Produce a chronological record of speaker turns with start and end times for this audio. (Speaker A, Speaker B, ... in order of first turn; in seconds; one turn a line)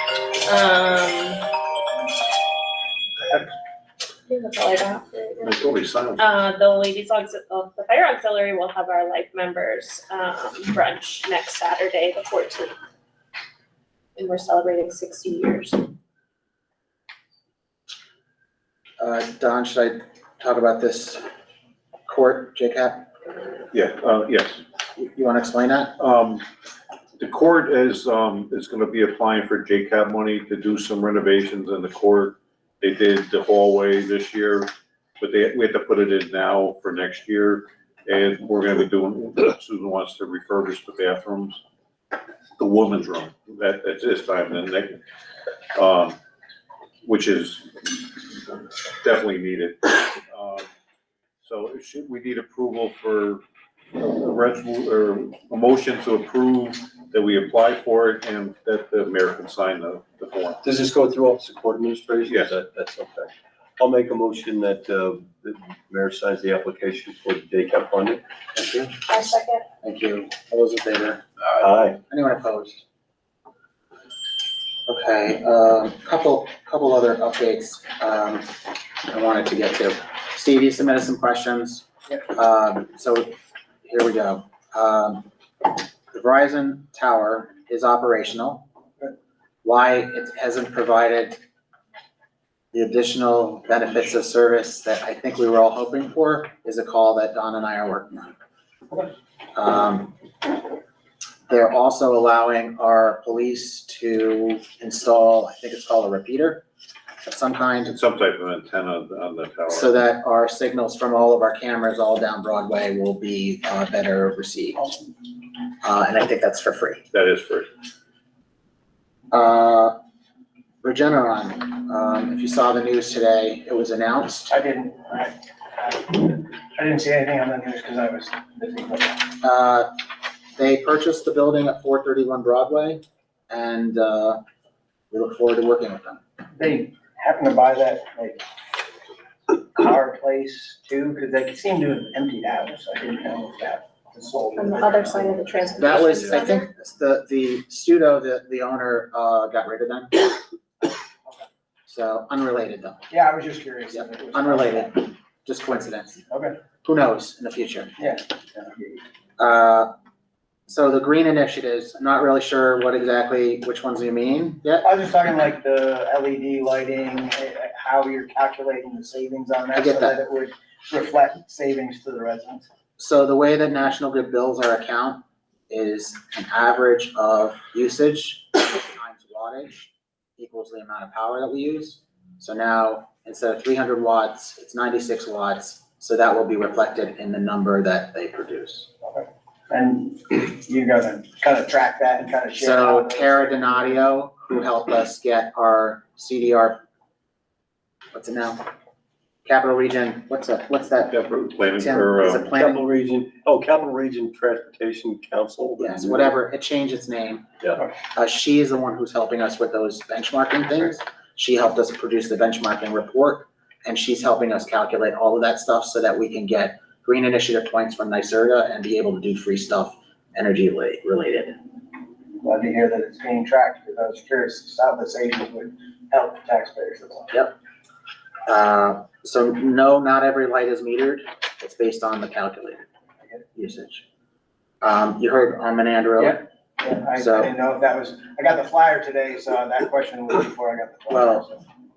Speaker A: 0.4-1.4
Speaker A: 4.3-5.6
Speaker B: 5.4-6.3
Speaker A: 6.2-12.7
Speaker A: 14.2-15.9
Speaker C: 19.0-21.2
Speaker C: 22.1-23.1
Speaker B: 23.7-24.6
Speaker C: 24.9-25.9
Speaker B: 26.0-26.4
Speaker B: 27.2-41.6
Speaker B: 42.6-45.0
Speaker B: 45.7-46.2
Speaker B: 47.0-48.2
Speaker B: 49.0-50.7
Speaker B: 51.4-53.4
Speaker B: 53.9-60.6
Speaker D: 60.6-68.2
Speaker B: 62.3-62.5
Speaker C: 68.5-69.2
Speaker A: 69.1-69.7
Speaker C: 69.8-71.2
Speaker D: 71.6-72.0
Speaker C: 72.1-72.8
Speaker C: 74.9-83.3
Speaker C: 83.8-85.3
Speaker C: 86.1-88.6
Speaker C: 89.6-91.4
Speaker C: 92.7-98.3
Speaker C: 99.5-100.1
Speaker C: 101.5-106.6
Speaker C: 107.2-108.0
Speaker B: 107.9-109.9
Speaker C: 109.7-114.9
Speaker C: 115.8-117.0
Speaker B: 117.1-117.7
Speaker C: 119.3-119.9
Speaker C: 120.8-124.5
Speaker E: 124.5-129.2
Speaker C: 129.4-129.9
Speaker C: 130.5-134.4
Speaker C: 135.1-136.2
Speaker E: 136.5-138.4
Speaker E: 139.6-146.0
Speaker A: 144.6-146.7
Speaker C: 145.8-150.1
Speaker C: 151.9-153.0
Speaker E: 153.1-154.9
Speaker C: 153.9-156.2
Speaker E: 156.3-156.6
Speaker C: 156.8-157.9
Speaker E: 158.0-159.0
Speaker C: 159.4-159.9
Speaker C: 160.7-164.9
Speaker E: 164.8-172.7
Speaker C: 169.7-170.2
Speaker C: 173.0-188.9
Speaker E: 189.0-194.0
Speaker C: 192.6-196.8
Speaker C: 198.1-198.6
Speaker C: 199.4-201.2
Speaker B: 201.1-202.5
Speaker C: 201.8-202.8
Speaker D: 202.5-206.3
Speaker C: 205.8-207.5
Speaker C: 208.1-221.6
Speaker E: 222.4-227.3
Speaker C: 228.5-232.8
Speaker C: 233.5-234.0
Speaker C: 234.8-236.4
Speaker E: 236.2-241.6
Speaker C: 237.2-237.5
Speaker C: 241.1-241.4